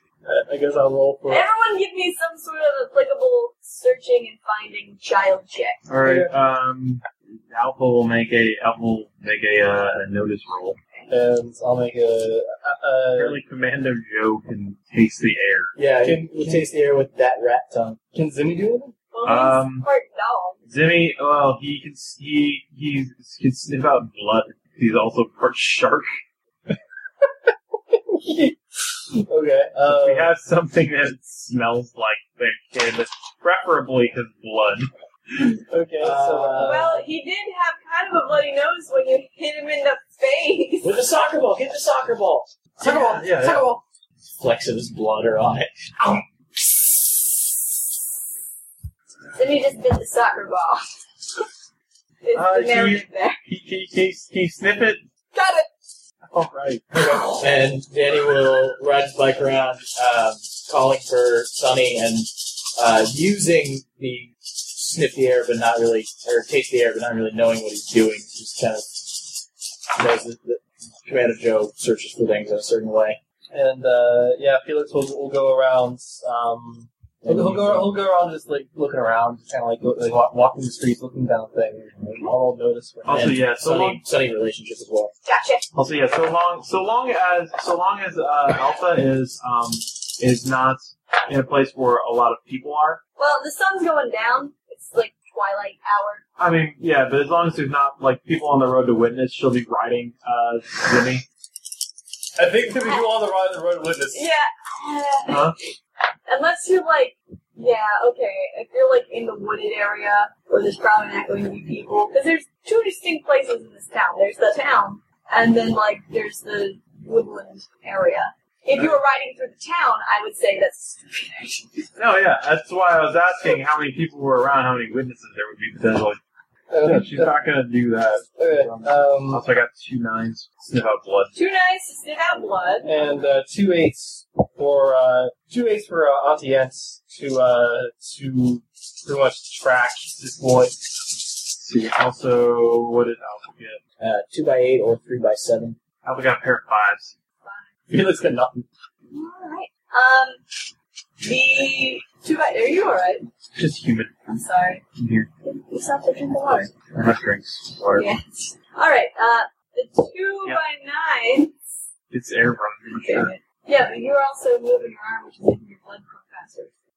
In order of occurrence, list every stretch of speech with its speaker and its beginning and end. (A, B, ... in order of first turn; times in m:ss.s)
0:00.2-0:01.5 A
0:01.3-0:05.8 B
0:05.9-0:10.8 C
0:06.0-0:06.3 A
0:11.1-0:13.4 A
0:13.2-0:15.8 C
0:15.8-0:18.0 D
0:16.0-0:16.6 A
0:18.1-0:18.9 A
0:19.1-0:20.6 B
0:19.2-0:19.9 C
0:20.7-0:26.1 C
0:27.2-0:30.3 A
0:29.9-0:35.5 C
0:35.7-0:37.0 A
0:36.0-0:37.0 D
0:36.6-0:41.0 B
0:40.8-0:42.7 D
0:42.8-0:43.8 A
0:42.8-0:43.7 C
0:44.4-0:46.2 D
0:49.4-0:50.8 B
0:52.2-0:53.4 B
0:52.4-0:55.0 C
0:55.3-0:55.7 B
0:56.3-0:56.9 C
0:57.2-1:13.2 D
1:13.5-1:23.3 A
1:17.2-1:18.0 D
1:23.1-1:24.0 C
1:23.1-1:25.1 D
1:25.2-1:25.7 B
1:25.7-1:33.0 C
1:33.2-1:36.2 B
1:36.4-1:41.2 C
1:42.4-1:44.2 A
1:42.7-1:43.1 B
1:44.1-1:45.5 B
1:45.3-1:45.6 C
1:46.3-2:01.9 B
2:02.0-2:06.2 C
2:06.7-2:07.3 A
2:06.8-2:11.3 C
2:08.4-2:09.4 A
2:11.3-2:12.9 B
2:12.8-2:21.1 A
2:21.6-2:23.8 C
2:24.0-2:25.8 D
2:26.0-2:27.2 C
2:27.4-2:27.7 B
2:27.9-2:28.7 A
2:29.1-2:30.4 B
2:31.2-2:33.3 B
2:33.6-2:34.1 C
2:34.3-2:34.8 B
2:35.0-2:35.3 C
2:35.4-2:36.7 B
2:36.7-2:38.1 C
2:38.0-2:41.6 B
2:42.1-2:43.3 C
2:42.9-2:46.8 B